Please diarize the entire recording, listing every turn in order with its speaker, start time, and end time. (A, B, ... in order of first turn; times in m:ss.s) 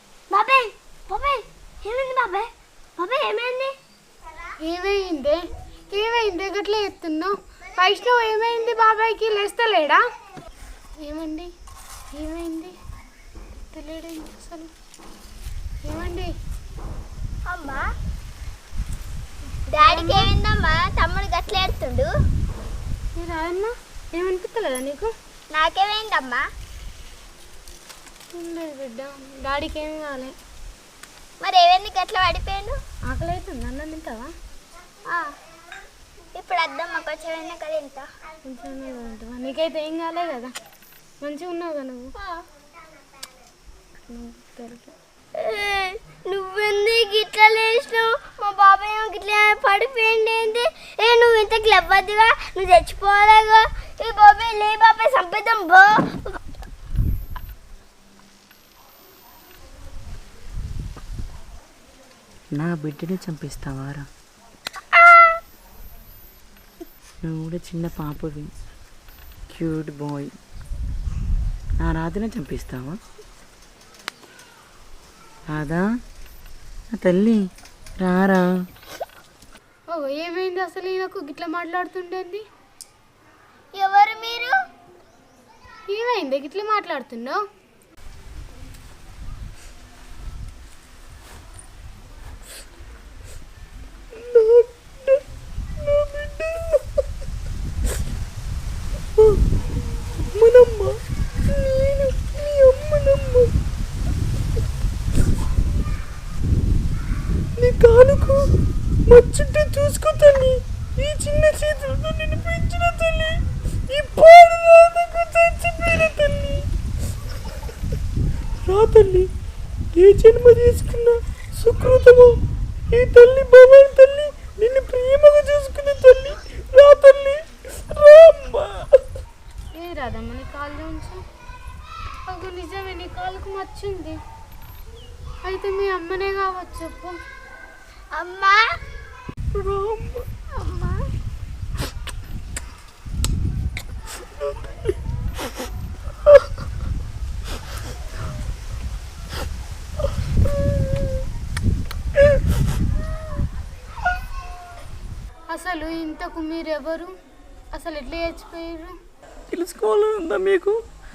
0:00.3-0:03.7 A
0:04.6-0:10.0 B
0:11.0-0:11.5 B
0:12.1-0:12.7 B
0:13.7-0:14.7 B
0:15.8-0:16.3 B
0:17.4-0:17.8 A
0:19.7-0:20.3 B
0:19.7-0:22.1 A
0:23.2-0:25.1 B
0:25.5-0:26.4 A
0:28.3-0:30.3 B
0:31.4-0:32.8 A
0:33.1-0:34.3 B
0:36.3-0:38.1 A
0:38.4-0:40.5 B
0:41.2-0:42.1 B
0:42.2-0:42.4 A
0:44.1-0:44.9 B
0:45.3-0:56.4 A
1:02.5-1:04.1 C
1:07.2-1:08.5 C
1:09.5-1:10.3 C
1:11.8-1:13.0 C
1:15.5-1:15.8 C
1:16.9-1:17.4 C
1:18.0-1:18.5 C
1:19.9-1:22.4 B
1:23.7-1:24.6 A
1:25.9-1:27.4 B
1:34.1-1:35.2 C
1:35.8-1:36.8 C
1:40.4-1:43.5 C
1:47.6-1:48.4 C
1:49.1-1:56.6 C
1:58.7-1:59.3 C
2:00.0-2:02.4 C
2:02.9-2:07.4 C
2:07.9-2:08.9 C
2:09.7-2:11.2 B
2:12.3-2:14.2 B
2:15.4-2:17.2 B
2:18.1-2:18.6 A
2:19.5-2:20.3 C
2:20.6-2:21.0 A
2:35.5-2:37.1 B
2:37.7-2:39.0 B
2:39.5-2:40.8 C